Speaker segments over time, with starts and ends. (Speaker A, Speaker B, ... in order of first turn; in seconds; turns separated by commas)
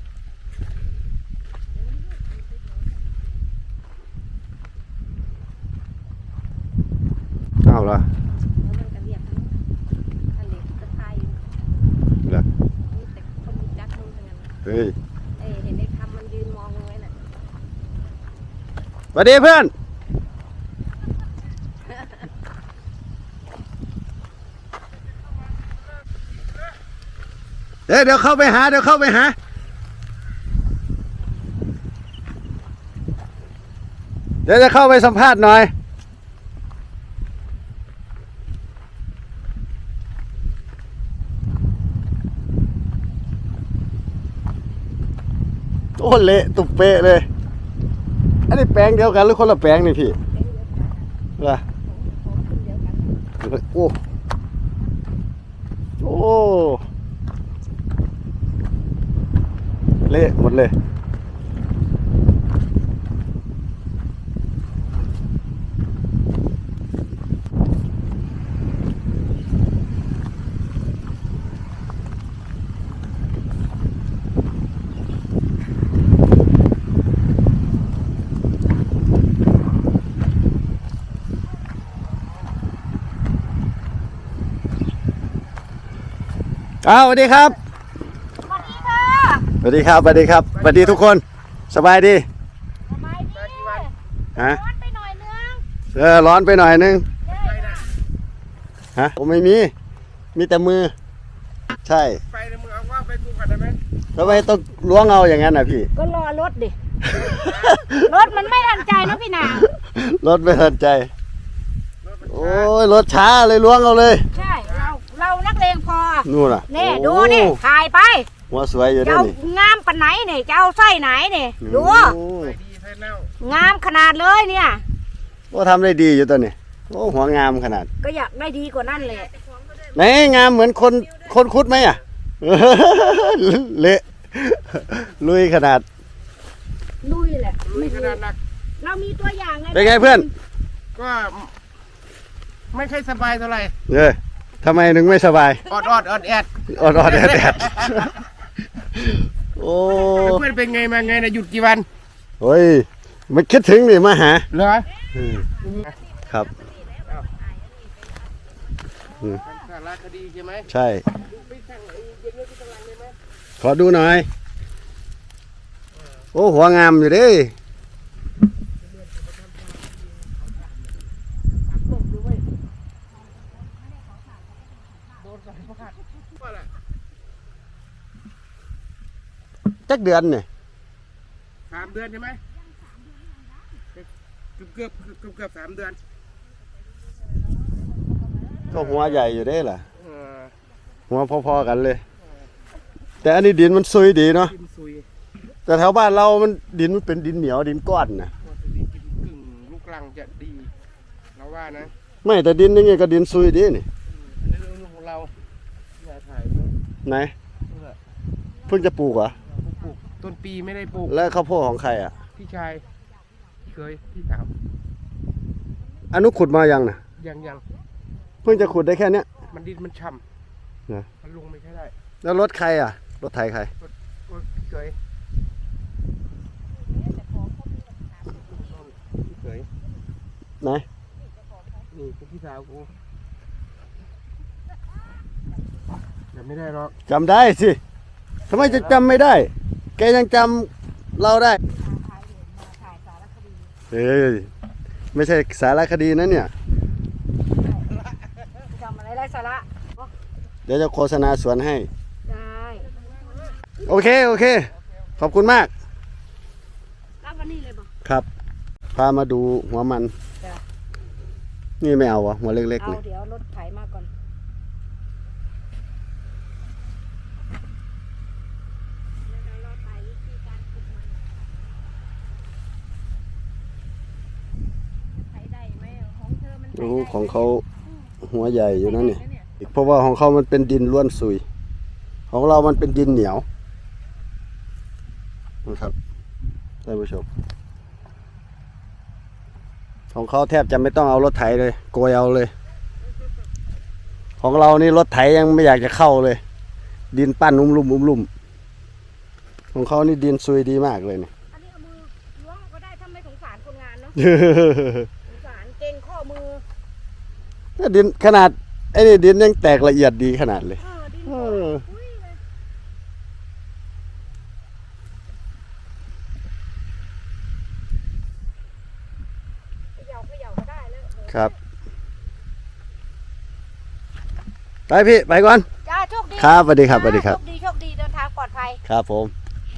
Speaker A: 1.7-3.2, Speaker B: 7.6-8.1, Speaker A: 8.6-9.6, Speaker A: 10.3-11.4, Speaker A: 12.9-14.5, Speaker B: 14.6-14.9, Speaker A: 15.4-17.1, Speaker B: 19.1-19.7, Speaker B: 27.9-29.4, Speaker B: 34.5-35.7, Speaker B: 46.0-47.3, Speaker B: 48.5-50.2, Speaker A: 50.2-51.1, Speaker B: 51.4-51.6, Speaker A: 51.7-53.2, Speaker B: 53.4-54.0, Speaker B: 56.0-56.8, Speaker B: 60.1-60.7, Speaker B: 86.8-87.5, Speaker A: 88.4-89.5, Speaker B: 89.6-92.2, Speaker C: 90.5-91.0, Speaker A: 92.9-95.6, Speaker C: 93.4-93.8, Speaker B: 95.9-97.0, Speaker A: 97.2-98.0, Speaker B: 98.9-99.7, Speaker B: 100.3-100.9, Speaker B: 101.8-102.2, Speaker C: 102.3-103.8, Speaker B: 104.1-105.9, Speaker A: 105.9-106.7, Speaker B: 107.0-108.1, Speaker C: 107.3-107.8, Speaker A: 108.0-109.7, Speaker B: 109.4-111.1, Speaker C: 112.0-112.7, Speaker B: 112.2-114.3, Speaker A: 114.3-118.3, Speaker C: 114.6-114.9, Speaker B: 116.2-117.6, Speaker B: 118.5-119.3, Speaker A: 119.0-122.2, Speaker B: 121.6-122.5, Speaker C: 122.4-123.3, Speaker A: 123.4-124.8, Speaker B: 125.5-127.9, Speaker A: 128.0-129.9, Speaker B: 129.9-135.8, Speaker A: 137.0-138.2, Speaker C: 137.7-138.4, Speaker A: 138.8-140.3, Speaker B: 139.7-140.3, Speaker C: 140.9-141.5, Speaker C: 142.7-143.7, Speaker B: 143.9-145.6, Speaker C: 145.7-148.1, Speaker B: 146.7-148.2, Speaker B: 148.9-150.4, Speaker A: 149.9-150.9, Speaker C: 150.1-151.9, Speaker B: 152.4-154.5, Speaker C: 154.5-154.9, Speaker B: 155.1-155.5, Speaker A: 155.6-158.2, Speaker C: 155.6-155.9, Speaker B: 156.3-156.5, Speaker A: 158.9-159.7, Speaker C: 159.4-163.1, Speaker B: 160.7-161.0, Speaker B: 163.6-164.3, Speaker B: 166.3-167.5, Speaker C: 169.0-170.7, Speaker C: 171.7-172.4, Speaker C: 175.2-175.9, Speaker B: 179.8-180.5, Speaker C: 181.7-182.4, Speaker A: 182.9-183.6, Speaker C: 184.6-186.0, Speaker A: 188.3-188.7, Speaker B: 188.7-189.8, Speaker C: 188.8-189.2, Speaker C: 190.0-190.5, Speaker B: 191.1-192.0, Speaker B: 193.2-194.5, Speaker C: 194.4-195.0, Speaker B: 195.7-198.3, Speaker C: 198.4-200.7, Speaker C: 201.3-201.9, Speaker B: 202.2-203.8, Speaker C: 204.1-205.3, Speaker C: 206.0-206.7, Speaker B: 207.1-207.3, Speaker B: 208.7-209.3, Speaker C: 209.7-211.1, Speaker B: 211.1-212.2, Speaker C: 212.3-212.9, Speaker C: 213.6-214.5, Speaker B: 216.1-217.0, Speaker C: 217.2-217.6, Speaker B: 218.4-219.3, Speaker C: 219.4-220.2, Speaker C: 221.2-221.9, Speaker B: 222.2-223.7, Speaker C: 224.3-224.9, Speaker A: 226.8-228.8, Speaker C: 228.5-229.7, Speaker C: 231.9-232.9, Speaker C: 236.3-236.9, Speaker B: 237.1-237.8, Speaker B: 238.5-241.6, Speaker C: 238.6-238.8, Speaker A: 241.6-243.7, Speaker B: 243.9-244.5, Speaker B: 245.1-246.5, Speaker A: 247.6-247.9, Speaker A: 248.6-250.1, Speaker B: 250.7-251.9, Speaker A: 252.2-252.9, Speaker B: 253.8-255.7, Speaker A: 257.2-257.9, Speaker B: 258.9-260.1, Speaker B: 261.8-263.0, Speaker A: 262.8-264.1, Speaker A: 269.2-271.4, Speaker A: 275.1-277.5, Speaker B: 276.7-277.6, Speaker B: 278.2-281.4, Speaker A: 278.6-279.5, Speaker B: 282.3-283.4, Speaker B: 285.6-285.9, Speaker B: 286.8-287.2, Speaker B: 290.1-292.5, Speaker B: 294.4-296.4, Speaker B: 297.1-298.3, Speaker B: 299.7-301.3, Speaker A: 301.5-304.2, Speaker B: 304.1-305.1, Speaker A: 305.3-306.6, Speaker B: 307.8-311.8, Speaker A: 310.8-312.4, Speaker A: 319.9-321.5, Speaker B: 324.9-325.6, Speaker A: 325.8-328.8, Speaker B: 326.4-327.4, Speaker B: 328.8-329.3